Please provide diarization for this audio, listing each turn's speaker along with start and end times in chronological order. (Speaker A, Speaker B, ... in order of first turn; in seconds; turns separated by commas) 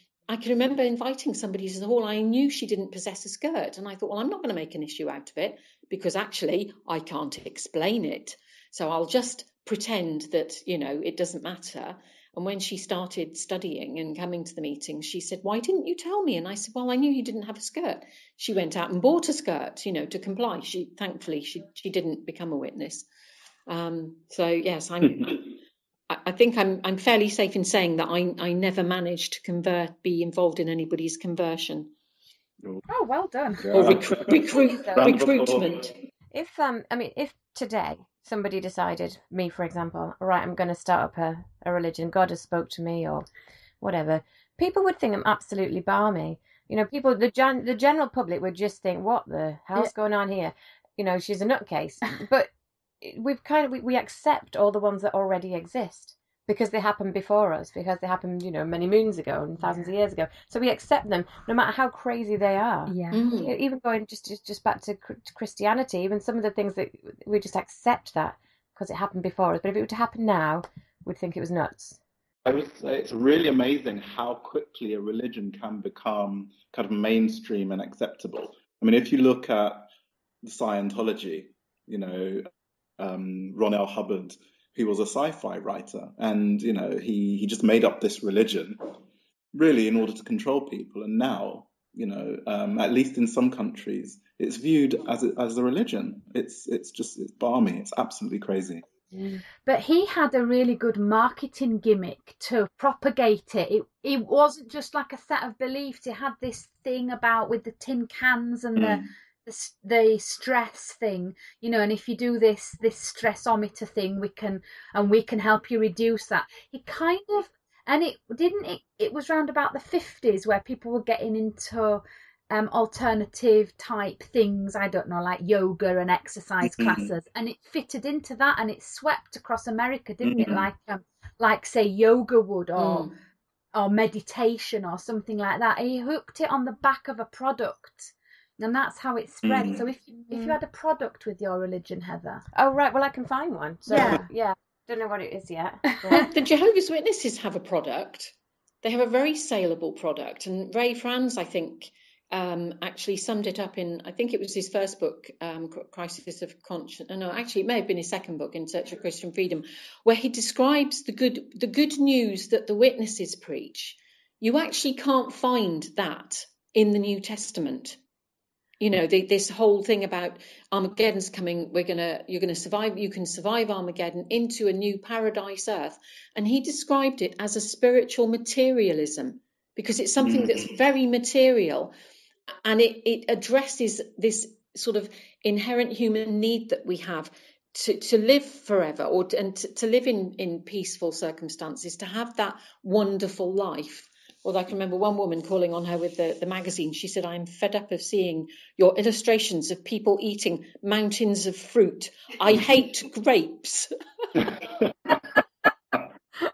Speaker A: 0.3-23.1, Speaker A: 23.7-25.6, Speaker A: 26.1-31.9, Speaker B: 32.9-33.9, Speaker C: 33.6-35.8, Speaker A: 33.7-35.9, Speaker D: 34.9-35.1, Speaker D: 36.3-43.3, Speaker D: 43.8-52.5, Speaker D: 53.0-72.0, Speaker B: 62.9-63.2, Speaker A: 63.1-63.5, Speaker C: 72.5-79.9, Speaker C: 80.4-88.8, Speaker C: 89.5-98.8, Speaker D: 99.1-99.4, Speaker B: 99.7-133.1, Speaker C: 108.8-109.1, Speaker C: 126.7-127.1, Speaker C: 130.2-130.7, Speaker A: 132.8-133.1, Speaker B: 133.8-142.4, Speaker C: 139.4-139.8, Speaker D: 140.3-140.6, Speaker D: 142.6-146.4, Speaker B: 143.9-144.3, Speaker A: 146.2-168.0, Speaker A: 168.8-181.9, Speaker C: 180.2-180.7, Speaker A: 182.6-203.9, Speaker C: 204.4-204.7